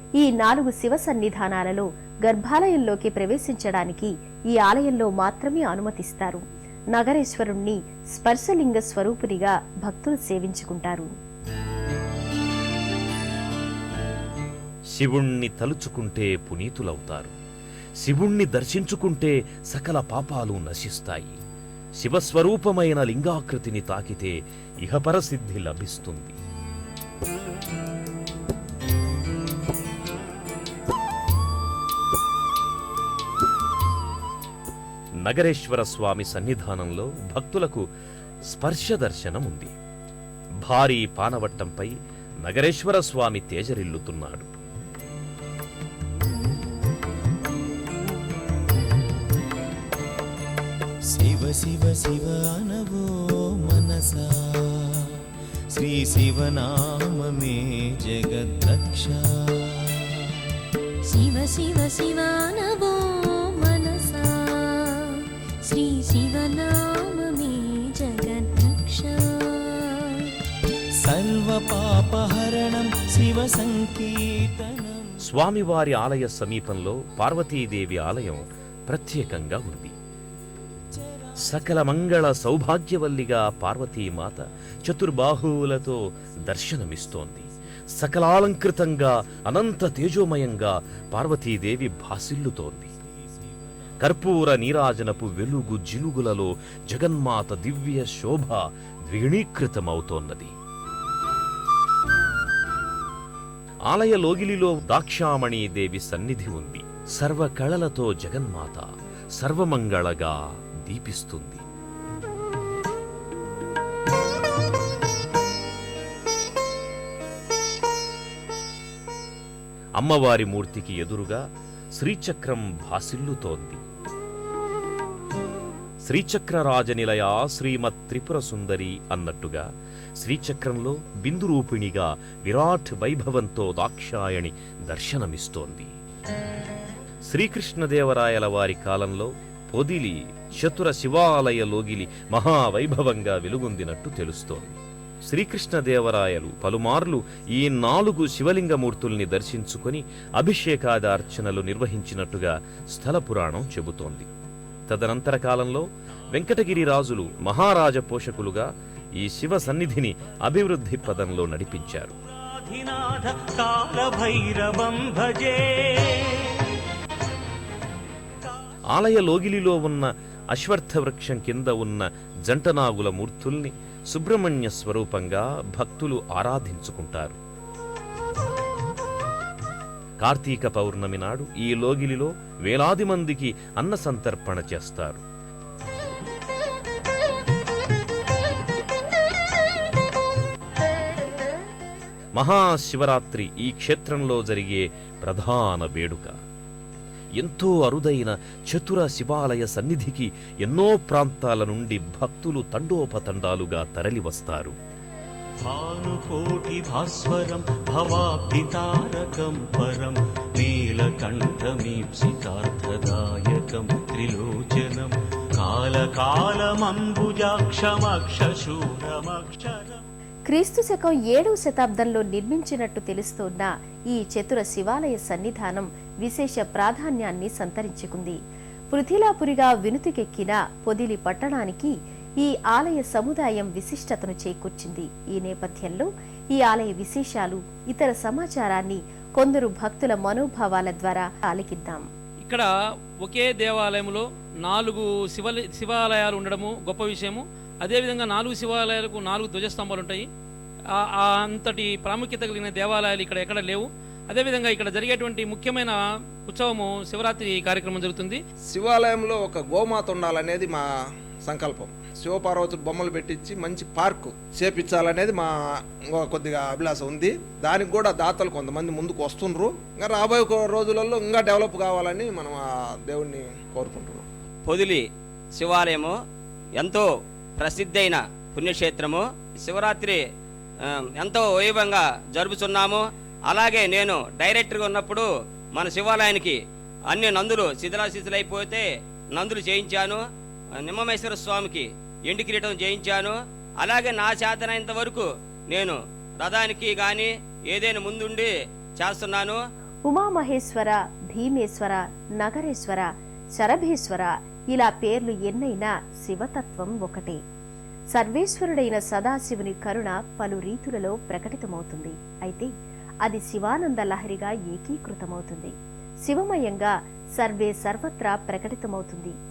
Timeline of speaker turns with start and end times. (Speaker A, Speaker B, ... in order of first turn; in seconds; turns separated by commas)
Speaker A: 0.2-6.4, Speaker A: 6.9-11.1, Speaker B: 15.0-17.3, Speaker B: 18.0-21.4, Speaker B: 22.0-26.4, Speaker B: 35.2-37.8, Speaker B: 38.5-39.7, Speaker B: 40.6-41.9, Speaker B: 42.5-44.5, Speaker C: 51.1-60.5, Speaker D: 61.1-70.3, Speaker C: 71.0-75.2, Speaker B: 75.3-80.0, Speaker B: 81.5-92.9, Speaker B: 94.0-100.5, Speaker B: 103.9-111.6, Speaker B: 120.0-121.4, Speaker B: 122.0-123.8, Speaker B: 126.1-129.6, Speaker B: 130.2-135.9, Speaker B: 137.3-154.3, Speaker B: 154.9-162.1, Speaker E: 162.7-165.9, Speaker B: 168.9-177.4, Speaker B: 180.2-185.2, Speaker B: 192.4-196.3, Speaker B: 197.4-204.8, Speaker E: 205.7-220.0, Speaker A: 220.5-228.4, Speaker A: 228.9-242.1, Speaker F: 243.2-250.3, Speaker F: 251.0-258.4, Speaker G: 258.7-260.9, Speaker G: 261.4-274.2, Speaker H: 274.7-275.0, Speaker H: 275.6-276.1, Speaker H: 276.8-277.1, Speaker H: 277.6-280.2, Speaker H: 281.2-286.6, Speaker H: 287.1-290.2, Speaker H: 290.8-299.6, Speaker A: 300.1-307.4, Speaker A: 308.1-312.7, Speaker A: 313.2-315.7, Speaker A: 316.2-319.4